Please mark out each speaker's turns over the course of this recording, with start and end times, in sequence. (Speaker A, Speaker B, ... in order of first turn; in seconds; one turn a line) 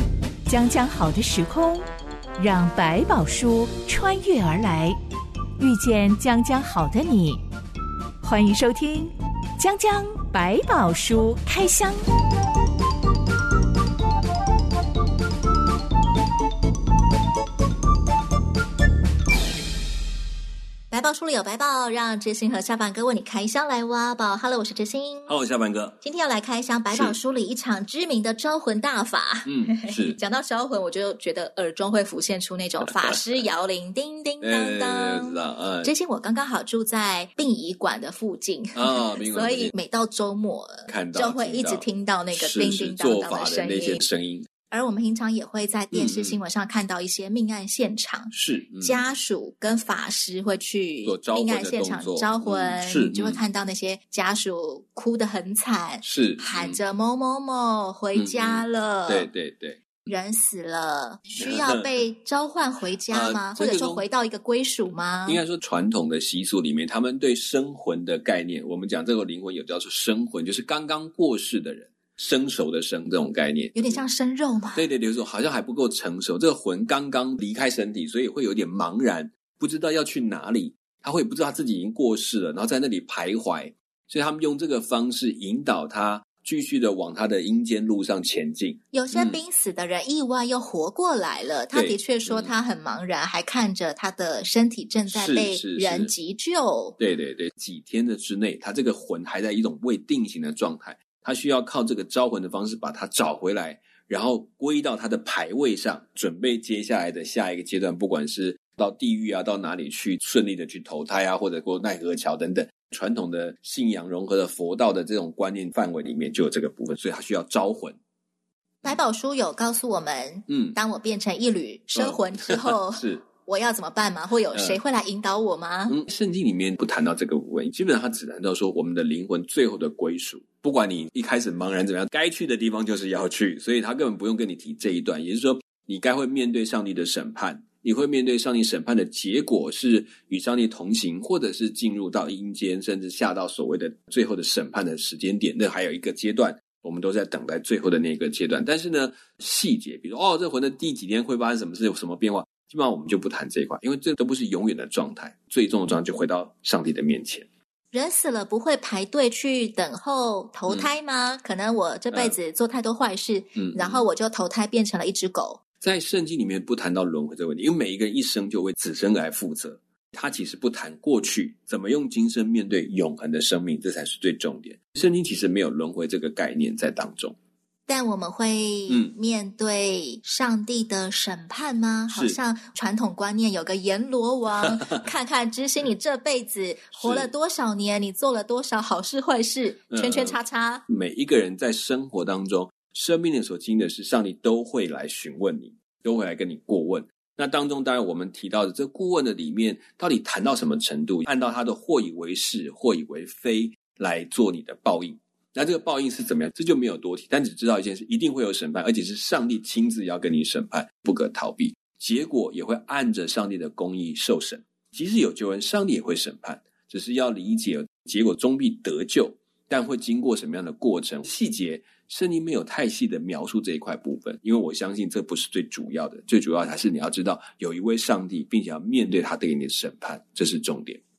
Speaker A: 0.5-5.0
Speaker A: 5.6-7.4
Speaker A: 8.2-12.1
Speaker B: 20.9-25.4
Speaker C: 25.3-26.0
Speaker B: 26.0-44.0
Speaker C: 29.4-30.2
Speaker C: 32.8-33.4
Speaker C: 34.4-35.9
Speaker C: 38.8-39.7
Speaker C: 40.9-44.5
Speaker B: 44.7-59.3
Speaker C: 45.9-46.4
Speaker C: 48.3-49.0
Speaker C: 51.0-53.4
Speaker C: 56.0-56.8
Speaker C: 58.1-59.8
Speaker B: 60.1-65.4
Speaker C: 61.3-62.0
Speaker C: 63.1-64.0
Speaker C: 65.3-74.0
Speaker B: 73.8-74.9
Speaker C: 74.8-89.4
Speaker B: 88.9-97.0
Speaker C: 91.7-92.5
Speaker C: 95.1-96.1
Speaker C: 97.0-118.0
Speaker B: 118.8-126.0
Speaker C: 120.5-120.8
Speaker C: 122.0-123.2
Speaker C: 124.5-124.8
Speaker C: 125.9-157.5
Speaker B: 157.9-165.6
Speaker C: 163.6-164.0
Speaker C: 165.8-177.3
Speaker B: 177.9-190.8
Speaker C: 182.1-182.4
Speaker C: 184.6-185.0
Speaker C: 186.9-187.3
Speaker C: 189.9-231.0